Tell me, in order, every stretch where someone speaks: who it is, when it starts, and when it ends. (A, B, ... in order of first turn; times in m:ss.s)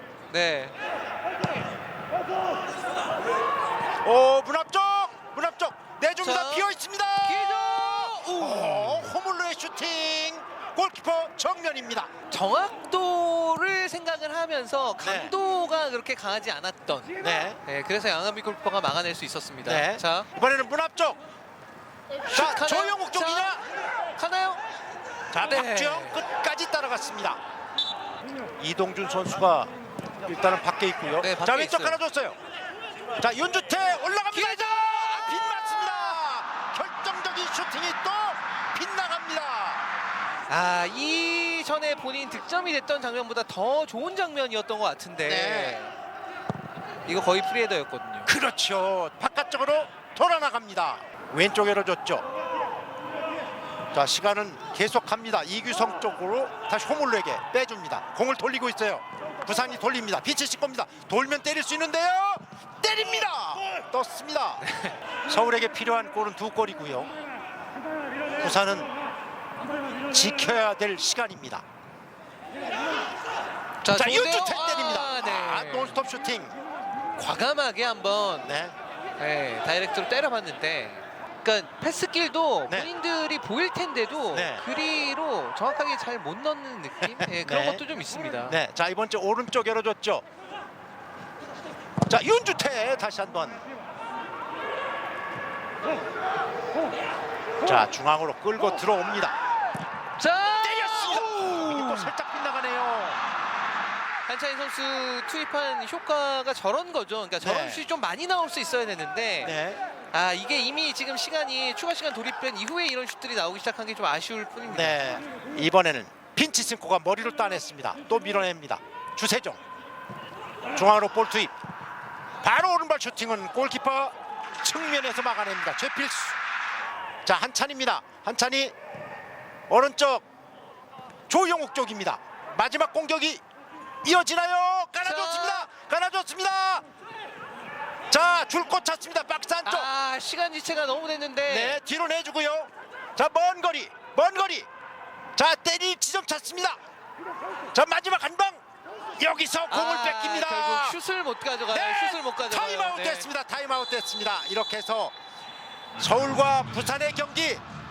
0:00.3-0:00.8 A
0:04.0-0:12.1 B
0:06.2-0:09.1 A
0:12.3-0:17.1 A
0:15.0-0:15.3 B
0:17.2-0:17.6 B
0:17.6-0:20.3 A
0:19.6-0:21.2 B
0:22.3-0:23.6 A
0:22.3-0:23.6 B
0:24.2-0:24.6 A
0:25.3-0:27.4 B
0:25.4-0:26.2 A
0:28.6-0:29.7 B
0:30.3-0:32.4 B
0:31.2-0:32.0 A
0:33.2-0:39.8 B
0:34.3-0:35.4 A
0:40.5-0:46.0 A
0:45.2-0:45.8 B
0:47.1-0:48.3 A
0:48.3-0:52.2 B
0:53.9-1:04.6 B
1:04.6-1:05.0 A
1:05.3-1:07.1 B
1:08.4-1:08.9 B
1:10.1-1:11.6 B
1:13.8-1:16.0 A
1:13.9-1:16.5 B
1:17.2-1:18.6 A
1:18.4-1:18.8 B
1:19.2-1:28.6 A
1:24.3-1:24.6 B
1:27.0-1:27.8 B
1:28.5-1:30.2 B
1:32.1-1:33.6 B
1:37.6-1:39.4 B
1:40.2-1:42.1 A
1:40.6-1:43.2 B
1:44.3-1:49.6 A
1:47.4-1:47.8 B
1:49.4-1:49.8 B
1:50.1-1:55.0 A
1:54.7-1:59.6 B
2:00.7-2:01.5 B
2:02.4-2:06.4 B
2:07.2-2:08.8 B
2:09.7-2:10.2 B
2:11.3-2:13.4 B
2:14.0-2:16.8 B
2:15.0-2:15.7 A
2:18.1-2:19.9 B
2:19.6-2:21.8 A
2:21.5-2:24.7 B
2:25.4-2:26.8 B
2:27.7-2:28.6 B
2:29.2-2:31.0 B
2:29.7-2:33.3 A
2:31.7-2:35.2 B
2:36.0-2:37.6 B